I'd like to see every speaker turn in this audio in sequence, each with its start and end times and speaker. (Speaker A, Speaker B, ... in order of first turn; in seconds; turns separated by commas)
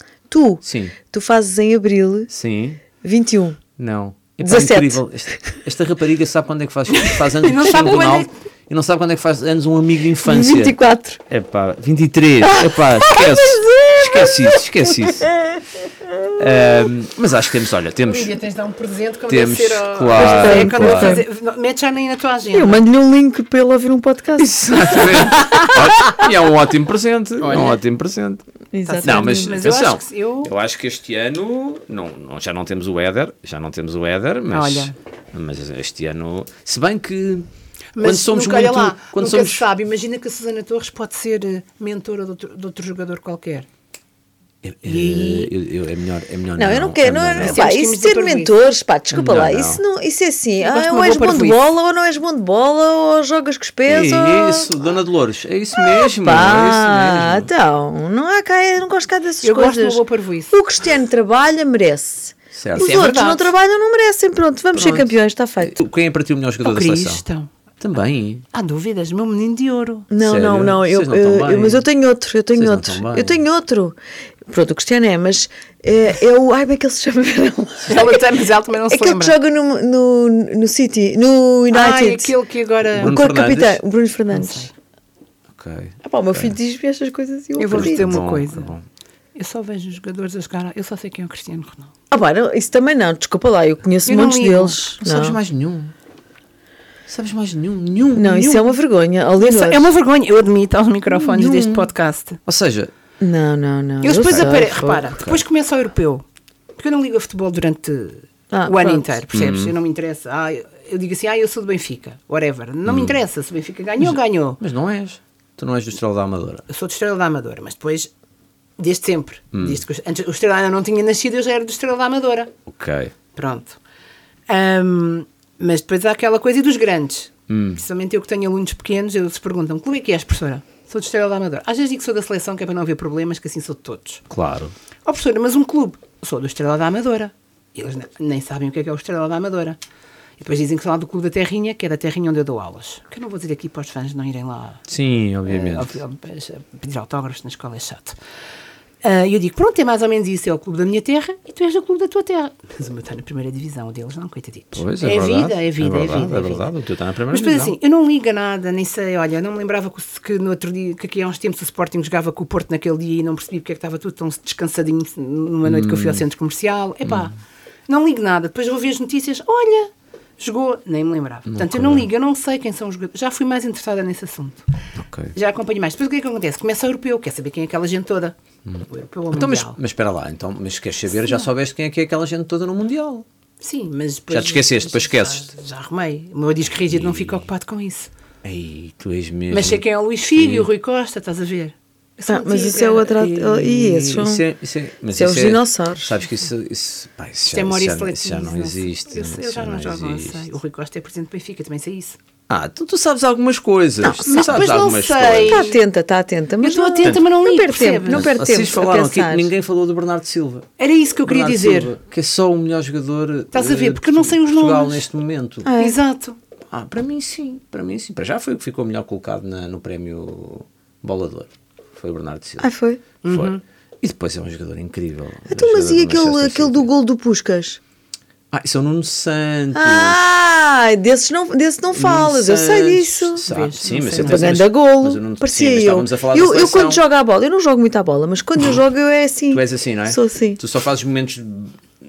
Speaker A: 0.3-2.3, Speaker B: 0.6-0.9, Speaker B: 2.3-2.8, Speaker A: 3.0-3.6, Speaker B: 3.8-10.7, Speaker A: 4.4-5.0, Speaker C: 6.9-8.3, Speaker A: 10.2-11.2, Speaker B: 11.3-15.3, Speaker A: 12.4-16.9, Speaker B: 16.4-18.3, Speaker C: 18.1-22.8, Speaker B: 19.3-21.2, Speaker A: 20.1-21.2, Speaker A: 22.5-25.5, Speaker B: 24.4-28.4, Speaker C: 27.4-27.8, Speaker A: 28.7-29.6, Speaker C: 28.9-30.5, Speaker B: 29.0-37.5, Speaker C: 34.5-34.9, Speaker C: 38.0-43.7, Speaker B: 38.0-39.6, Speaker B: 44.6-47.6, Speaker C: 44.8-45.5, Speaker A: 46.6-54.7, Speaker C: 47.4-48.6, Speaker B: 49.1-49.8, Speaker C: 50.6-51.6, Speaker B: 53.9-57.5, Speaker A: 55.7-65.8, Speaker C: 59.4-60.5, Speaker B: 62.5-63.1, Speaker C: 62.8-63.5, Speaker B: 64.7-65.1, Speaker B: 65.6-67.2, Speaker C: 66.6-67.5, Speaker B: 67.8-68.5, Speaker C: 68.5-70.1, Speaker A: 70.1-82.3, Speaker B: 70.2-71.8, Speaker B: 72.5-73.4, Speaker C: 77.8-79.3, Speaker C: 81.7-83.1, Speaker B: 83.0-83.8, Speaker A: 83.0-84.7, Speaker C: 84.3-84.7, Speaker B: 85.5-86.5, Speaker A: 86.0-88.2, Speaker C: 87.6-88.7, Speaker B: 87.7-88.8, Speaker C: 89.3-91.9, Speaker A: 92.1-95.4, Speaker C: 94.0-94.8, Speaker B: 95.0-95.9, Speaker B: 97.1-98.6, Speaker A: 98.1-99.9, Speaker C: 99.4-102.4, Speaker A: 101.2-101.8, Speaker B: 102.5-102.9, Speaker A: 103.2-105.0, Speaker C: 104.0-106.2, Speaker B: 105.1-105.4, Speaker C: 106.8-114.6, Speaker A: 108.5-109.1, Speaker B: 109.3-109.7, Speaker B: 112.8-113.2, Speaker B: 114.0-116.6, Speaker C: 116.7-118.1, Speaker C: 118.8-122.5, Speaker B: 119.5-119.8, Speaker B: 122.7-123.1, Speaker C: 123.3-123.8, Speaker C: 124.5-134.2, Speaker B: 127.5-127.8, Speaker B: 134.3-134.7, Speaker C: 135.1-139.8, Speaker C: 140.4-144.8, Speaker B: 144.9-146.0, Speaker C: 145.5-148.2, Speaker C: 149.0-156.7, Speaker B: 154.7-157.8, Speaker C: 157.3-167.3, Speaker B: 165.6-166.2, Speaker C: 167.9-174.6, Speaker B: 171.5-172.1, Speaker B: 175.0-175.3, Speaker C: 175.3-178.3, Speaker B: 178.7-183.2, Speaker C: 178.9-179.8, Speaker C: 183.6-188.1, Speaker B: 184.3-185.5, Speaker B: 186.8-187.4, Speaker B: 188.4-189.8, Speaker C: 189.5-194.1, Speaker B: 190.3-190.7, Speaker A: 192.3-194.4, Speaker B: 193.9-200.5, Speaker A: 195.1-196.2, Speaker C: 197.5-202.2, Speaker B: 202.5-205.7, Speaker A: 204.0-204.4, Speaker C: 204.2-205.8, Speaker A: 205.5-209.5, Speaker C: 206.6-208.3, Speaker B: 208.1-210.7, Speaker C: 210.8-211.9, Speaker B: 211.2-215.7, Speaker C: 213.5-215.1, Speaker A: 215.6-216.0, Speaker C: 215.8-216.4, Speaker B: 216.7-222.7, Speaker A: 222.6-223.0, Speaker C: 223.2-223.6, Speaker B: 223.3-226.9, Speaker A: 225.5-227.8, Speaker B: 228.5-230.2, Speaker A: 229.7-233.4, Speaker B: 231.9-237.0, Speaker C: 233.4-234.6, Speaker A: 234.2-240.6, Speaker B: 239.5-241.8